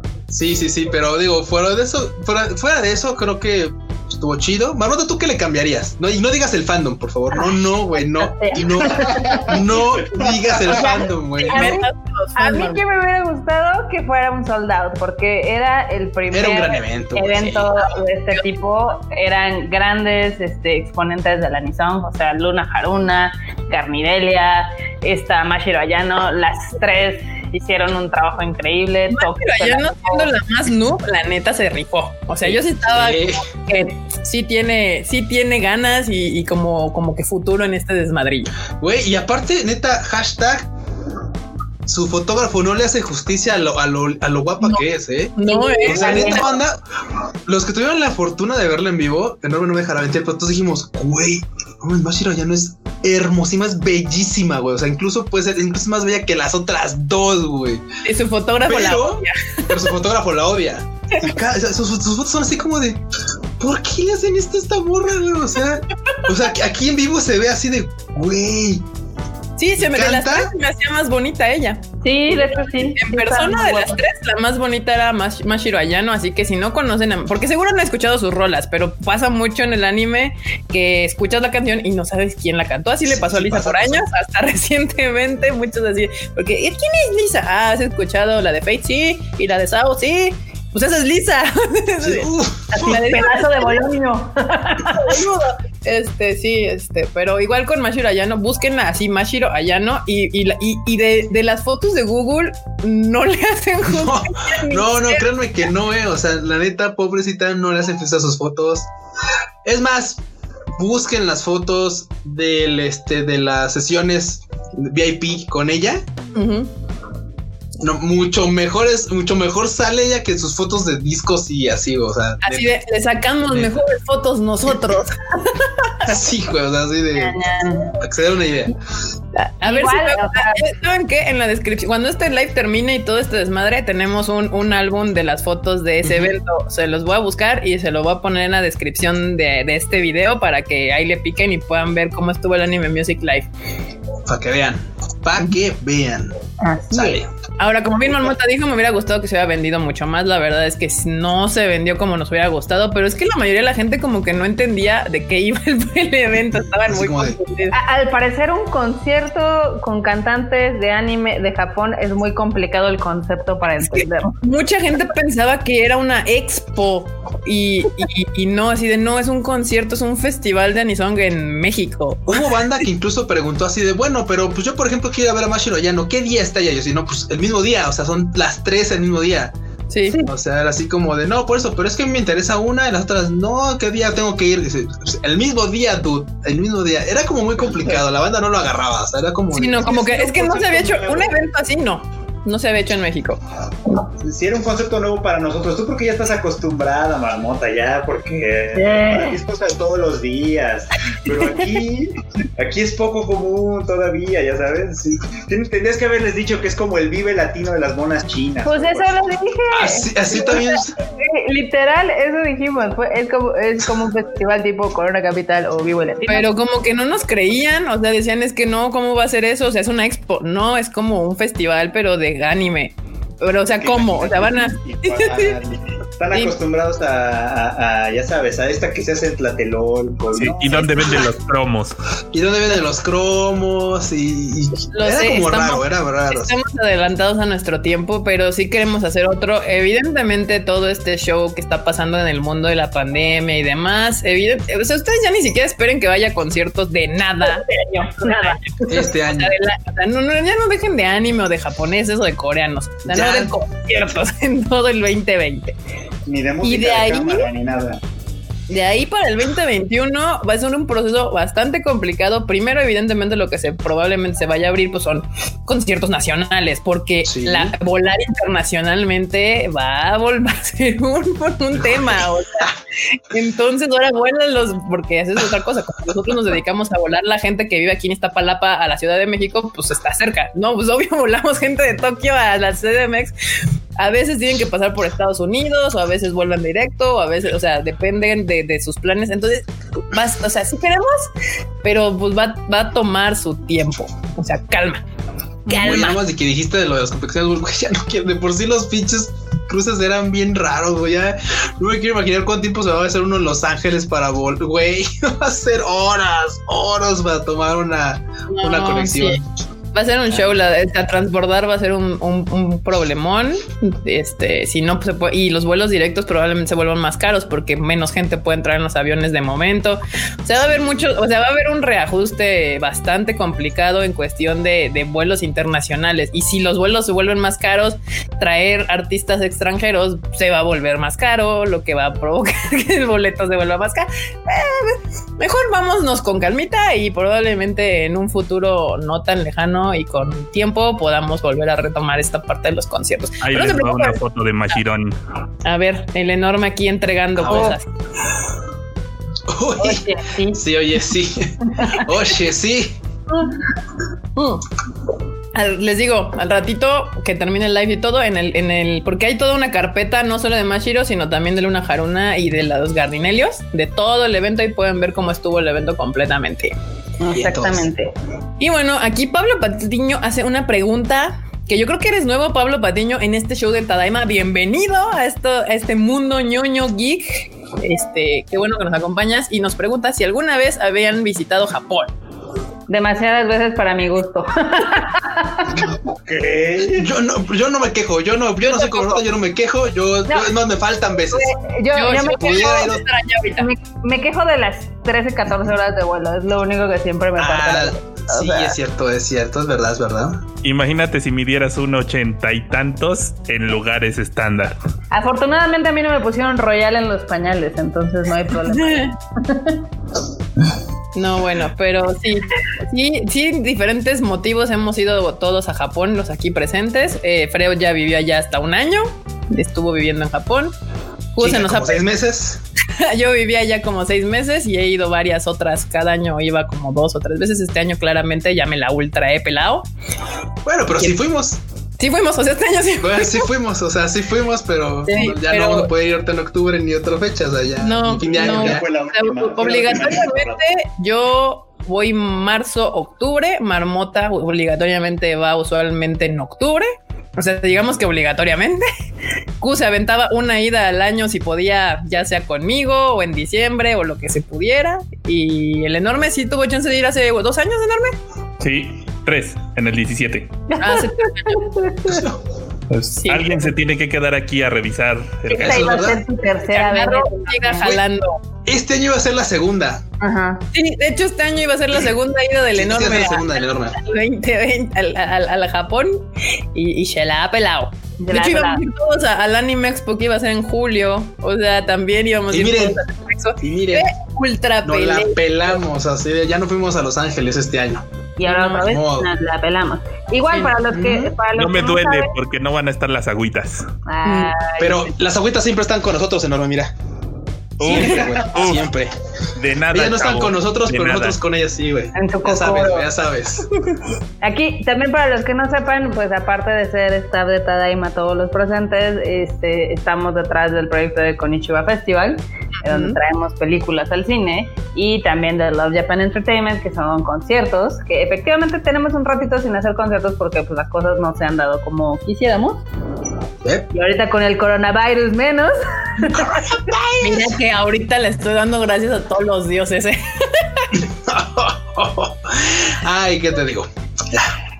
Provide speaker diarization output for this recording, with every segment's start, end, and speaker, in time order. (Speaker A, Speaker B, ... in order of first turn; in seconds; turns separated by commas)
Speaker A: 0.3-11.8, Speaker B: 7.3-9.6, Speaker C: 9.1-10.9, Speaker B: 10.6-11.8, Speaker D: 11.4-12.8, Speaker B: 12.4-30.3, Speaker A: 16.3-17.7, Speaker D: 29.1-38.5, Speaker A: 32.9-33.4, Speaker A: 38.8-40.7, Speaker A: 41.9-45.3, Speaker D: 45.4-46.5, Speaker B: 45.5-46.5, Speaker A: 45.9-46.8, Speaker A: 47.5-57.8, Speaker D: 58.0-59.9, Speaker A: 58.7-63.0, Speaker A: 63.6-68.8, Speaker D: 69.6-71.9, Speaker A: 69.8-70.5, Speaker B: 72.0-74.0, Speaker D: 72.5-93.8, Speaker A: 83.1-84.0, Speaker A: 92.0-93.0, Speaker B: 92.8-95.2, Speaker D: 94.9-105.3, Speaker A: 103.9-108.9, Speaker A: 109.7-110.2, Speaker A: 110.8-116.0, Speaker D: 116.3-116.7, Speaker A: 117.8-122.7, Speaker D: 122.4-126.1, Speaker A: 126.0-127.4, Speaker B: 127.2-127.9, Speaker A: 127.9-128.7, Speaker D: 129.3-143.5, Speaker B: 129.6-130.6, Speaker A: 136.0-136.3, Speaker A: 144.3-146.3, Speaker B: 146.6-147.2, Speaker A: 146.9-147.3, Speaker D: 147.6-157.8, Speaker A: 156.9-157.4, Speaker B: 157.7-164.3, Speaker D: 163.8-172.4, Speaker A: 172.3-179.5, Speaker D: 179.9-180.2, Speaker A: 180.3-190.7, Speaker D: 189.5-193.4, Speaker C: 190.3-191.4, Speaker C: 194.2-209.2, Speaker B: 198.7-199.4, Speaker B: 208.6-216.5, Speaker A: 209.7-210.9, Speaker D: 216.3-225.6, Speaker C: 223.8-231.2, Speaker E: 230.4-231.9, Speaker A: 232.3-236.5, Speaker D: 234.9-255.8, Speaker B: 248.1-248.6, Speaker A: 248.9-249.6, Speaker A: 253.1-253.5, Speaker C: 256.3-258.0, Speaker D: 256.6-257.5, Speaker D: 258.7-272.7, Speaker A: 267.3-267.8, Speaker D: 273.3-283.3, Speaker D: 284.0-291.3, Speaker D: 291.8-295.0, Speaker D: 295.7-296.1, Speaker A: 295.7-309.4, Speaker B: 295.7-296.0, Speaker D: 308.5-309.4, Speaker D: 309.9-344.2, Speaker A: 320.6-320.9, Speaker E: 343.4-345.1, Speaker D: 345.6-347.9, Speaker A: 347.4-347.8, Speaker A: 349.5-353.0, Speaker B: 349.8-350.6, Speaker D: 354.4-354.6, Speaker D: 355.6-366.8, Speaker B: 367.2-368.1, Speaker A: 367.3-367.9, Speaker D: 368.6-382.1, Speaker B: 382.9-385.7, Speaker C: 386.0-387.1, Speaker A: 386.9-391.5, Speaker D: 388.6-389.2, Speaker B: 390.3-390.5, Speaker B: 391.3-392.9, Speaker D: 391.9-393.7, Speaker A: 392.1-393.1, Speaker B: 393.5-398.8, Speaker A: 397.4-400.5, Speaker E: 400.6-404.8, Speaker B: 405.1-409.8, Speaker D: 408.7-409.1, Speaker D: 411.1-420.7, Speaker D: 421.4-422.0, Speaker A: 421.4-422.6, Speaker D: 423.0-429.9, Speaker A: 430.7-431.6, Speaker D: 432.0-433.5, Speaker A: 433.0-438.9, Speaker D: 435.1-435.9, Speaker D: 437.8-448.9, Speaker C: 438.3-440.6, Speaker D: 449.6-458.2, Speaker E: 458.6-460.6, Speaker B: 460.7-462.2, Speaker D: 460.8-461.7, Speaker A: 462.1-462.4, Speaker E: 462.9-466.1, Speaker D: 463.2-463.7, Speaker B: 465.5-467.9, Speaker A: 465.6-466.2, Speaker D: 466.7-468.4, Speaker A: 468.7-470.0, Speaker B: 470.2-470.6, Speaker D: 470.7-476.2, Speaker A: 472.8-474.0, Speaker D: 476.7-485.4, Speaker B: 478.2-478.8, Speaker A: 482.5-483.0, Speaker A: 483.6-484.1, Speaker A: 484.9-488.0, Speaker B: 488.4-492.3, Speaker D: 488.5-488.9, Speaker A: 488.8-489.3, Speaker D: 490.5-490.8, Speaker A: 490.9-491.4, Speaker E: 491.5-493.9, Speaker B: 494.1-495.1, Speaker D: 494.2-494.6, Speaker A: 494.8-496.9, Speaker E: 497.8-498.9, Speaker A: 497.8-499.1, Speaker E: 499.6-501.4, Speaker A: 499.9-503.7, Speaker B: 502.1-503.1, Speaker B: 504.4-522.8, Speaker D: 512.9-513.2, Speaker B: 523.9-526.9, Speaker A: 526.3-527.5, Speaker D: 527.2-530.9, Speaker A: 530.9-534.5